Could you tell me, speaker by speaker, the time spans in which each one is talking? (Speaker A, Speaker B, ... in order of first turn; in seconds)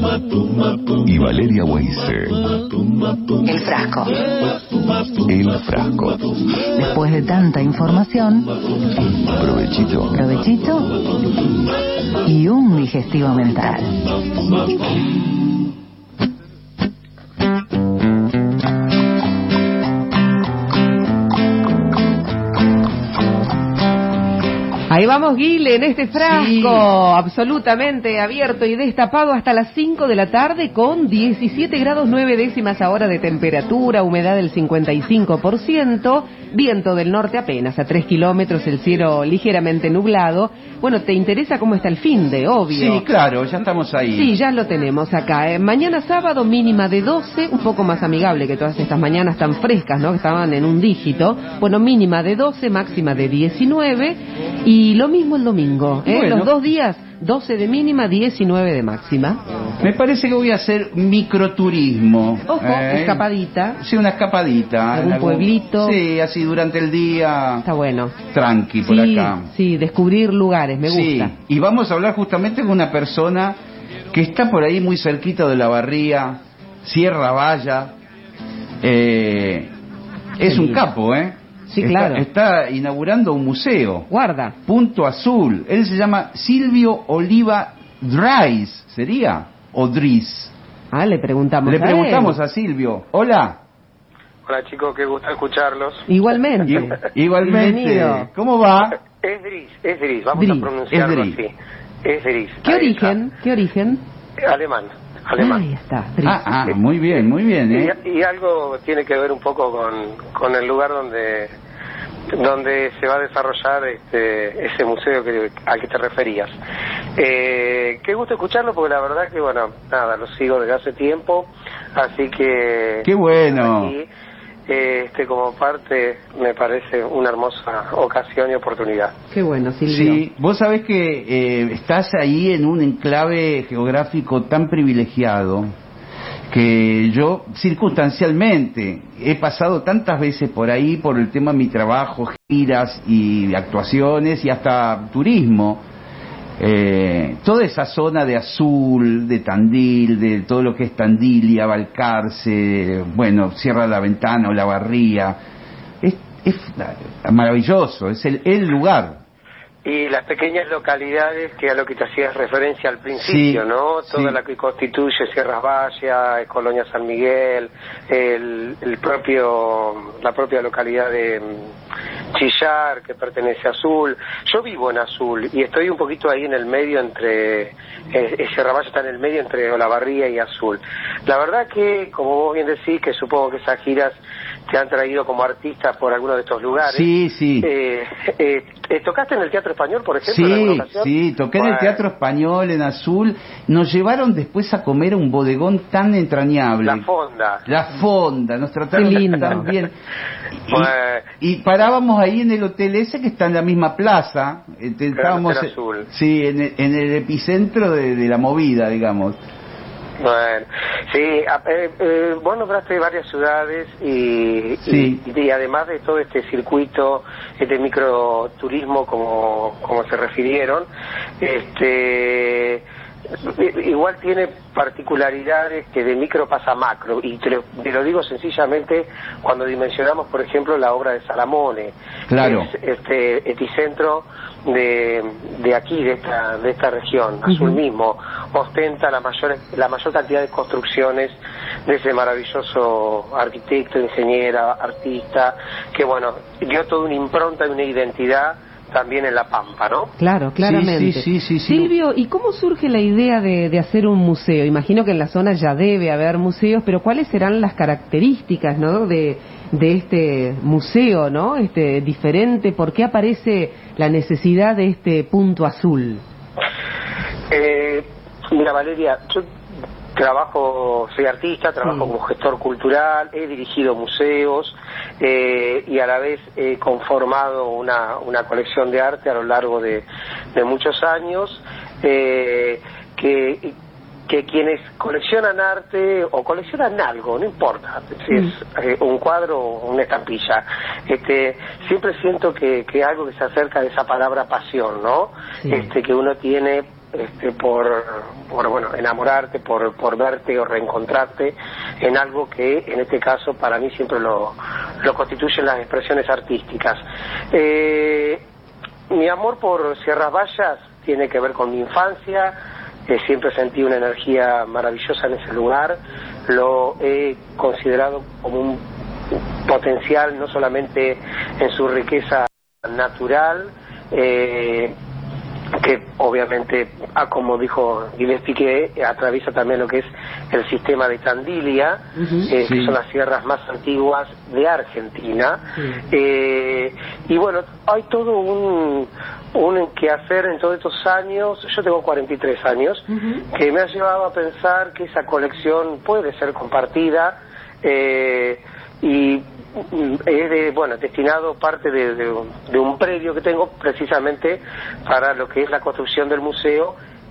Speaker A: 1.0-2.5, 5.2-6.3, 9.3-10.2
Speaker B: 3.5-4.1, 6.8-8.5, 10.1-10.9, 12.3-13.9
Speaker C: 24.9-43.1, 44.1-59.4, 62.5-63.8, 64.9-66.0, 67.6-68.2, 68.8-71.3, 80.4-80.9, 81.7-82.2, 84.1-84.6, 90.9-92.4, 96.1-98.3, 100.3-100.7, 102.6-104.0, 105.4-106.4, 129.3-130.2, 198.9-199.7, 237.5-237.8, 250.2-266.2, 271.8-272.1, 295.6-295.9, 332.2-332.5
Speaker D: 26.1-26.9, 42.7-44.3, 56.0-56.6, 59.8-63.3, 63.8-67.7, 68.3-69.5, 70.8-73.6, 74.1-77.9, 78.8-79.7, 80.4-84.1, 84.7-90.5, 91.7-93.6, 96.7-99.0, 100.9-101.4, 106.2-108.0, 123.0-123.9, 129.9-135.7, 136.5-145.8, 146.6-155.4, 156.0-159.2, 163.2-164.4, 186.8-187.7, 190.2-197.1, 197.7-199.9, 200.6-209.4, 214.8-215.2, 232.3-232.7, 250.6-251.9, 332.6-333.0
Speaker E: 94.5-96.1, 99.0-101.5, 102.0-103.2, 104.4-105.6, 106.7-111.5, 112.3-116.5, 117.2-124.1, 124.7-129.2, 159.8-171.7, 172.3-187.1, 187.6-192.0, 196.8-197.7, 200.7-201.3, 205.2-206.1, 210.2-220.9, 221.4-222.8, 223.4-250.1, 267.5-269.4, 270.2-283.7, 284.3-307.0, 307.5-308.4, 309.1-312.5, 313.1-318.8, 319.7-324.9, 325.8-356.9